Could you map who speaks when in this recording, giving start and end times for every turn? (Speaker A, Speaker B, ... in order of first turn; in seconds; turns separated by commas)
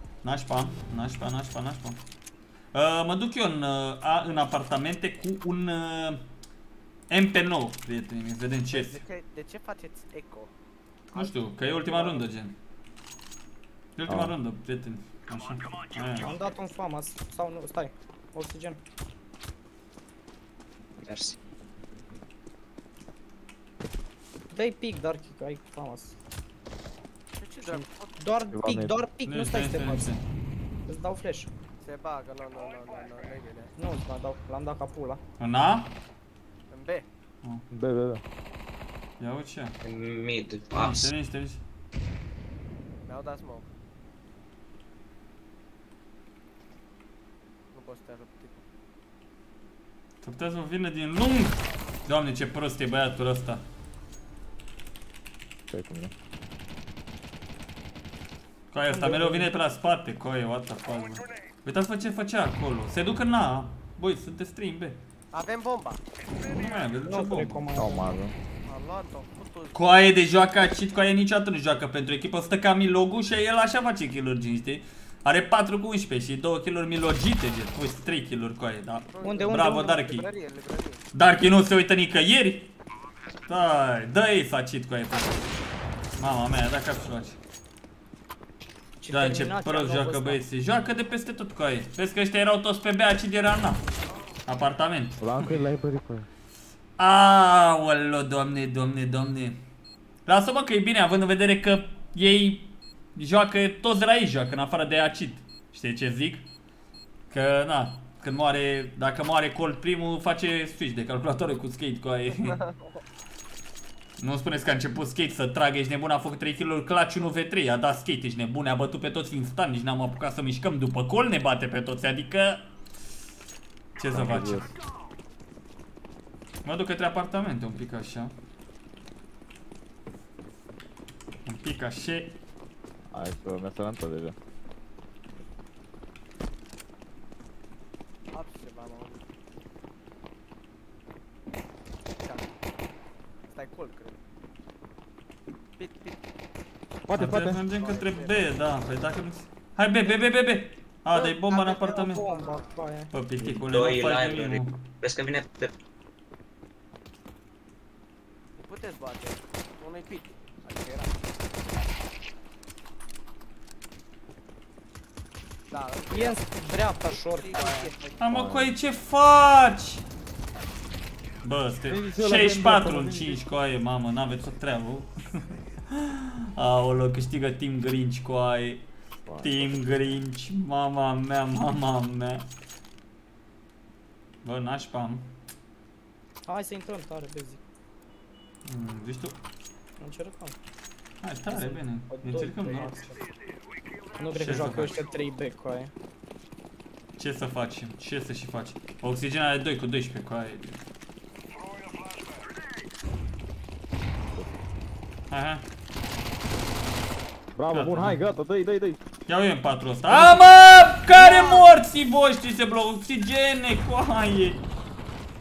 Speaker A: 0.2-2.0, Speaker A: 2.7-6.2, Speaker A: 7.1-9.0, Speaker B: 8.7-10.5, Speaker B: 11.1-12.2, Speaker A: 11.1-12.5, Speaker A: 14.0-16.3, Speaker C: 14.1-14.3, Speaker D: 16.2-18.8, Speaker E: 21.0-21.4, Speaker D: 24.5-26.1, Speaker B: 27.4-28.4, Speaker D: 27.6-30.2, Speaker C: 28.5-29.0, Speaker A: 29.2-30.2, Speaker D: 30.9-31.5, Speaker B: 31.8-33.7, Speaker D: 33.8-35.2, Speaker A: 35.4-35.9, Speaker B: 36.7-37.0, Speaker C: 37.7-38.2, Speaker A: 39.2-39.8, Speaker E: 39.8-41.1, Speaker A: 40.8-41.6, Speaker B: 43.0-43.7, Speaker B: 47.7-48.6, Speaker A: 50.2-53.6, Speaker C: 55.7-56.1, Speaker A: 58.7-65.0, Speaker D: 58.9-59.5, Speaker B: 65.3-66.0, Speaker A: 66.4-67.7, Speaker D: 67.1-68.2, Speaker C: 67.7-68.3, Speaker B: 68.7-70.1, Speaker A: 69.7-80.2, Speaker B: 79.1-81.0, Speaker D: 79.2-80.1, Speaker A: 81.1-82.7, Speaker A: 83.5-85.4, Speaker A: 86.2-87.4, Speaker D: 89.0-90.4, Speaker A: 89.1-93.8, Speaker A: 94.5-95.2, Speaker C: 95.2-96.3, Speaker A: 97.0-99.6, Speaker A: 100.2-106.5, Speaker A: 107.3-112.6, Speaker B: 112.3-113.0, Speaker A: 114.2-122.7, Speaker A: 124.0-124.7, Speaker C: 124.1-124.7, Speaker A: 126.6-128.3, Speaker A: 131.4-132.4, Speaker C: 133.1-134.3, Speaker B: 138.3-139.2, Speaker B: 142.2-142.5, Speaker B: 143.5-144.2, Speaker B: 145.8-146.2, Speaker C: 147.1-147.6, Speaker A: 147.1-152.2, Speaker B: 147.7-148.5, Speaker D: 151.1-153.1, Speaker B: 151.5-152.7, Speaker A: 153.1-154.8, Speaker C: 153.4-153.7, Speaker E: 153.7-155.7, Speaker B: 158.6-161.1, Speaker B: 165.7-166.5, Speaker D: 166.1-167.9, Speaker B: 167.1-168.4, Speaker A: 168.2-170.0, Speaker C: 168.3-168.7, Speaker A: 171.4-175.1, Speaker C: 171.9-173.4, Speaker A: 175.9-178.8, Speaker C: 179.2-179.8, Speaker A: 179.4-182.4, Speaker A: 184.4-185.3, Speaker D: 186.4-187.6, Speaker A: 188.6-189.3, Speaker D: 190.0-190.6, Speaker A: 191.2-193.2, Speaker D: 191.5-193.2, Speaker D: 194.2-195.9, Speaker A: 194.3-195.0, Speaker A: 197.2-200.8, Speaker C: 204.3-204.7, Speaker A: 205.3-205.6, Speaker C: 207.5-209.0, Speaker A: 207.7-208.2, Speaker A: 209.3-214.6, Speaker D: 210.1-210.4, Speaker D: 211.1-211.7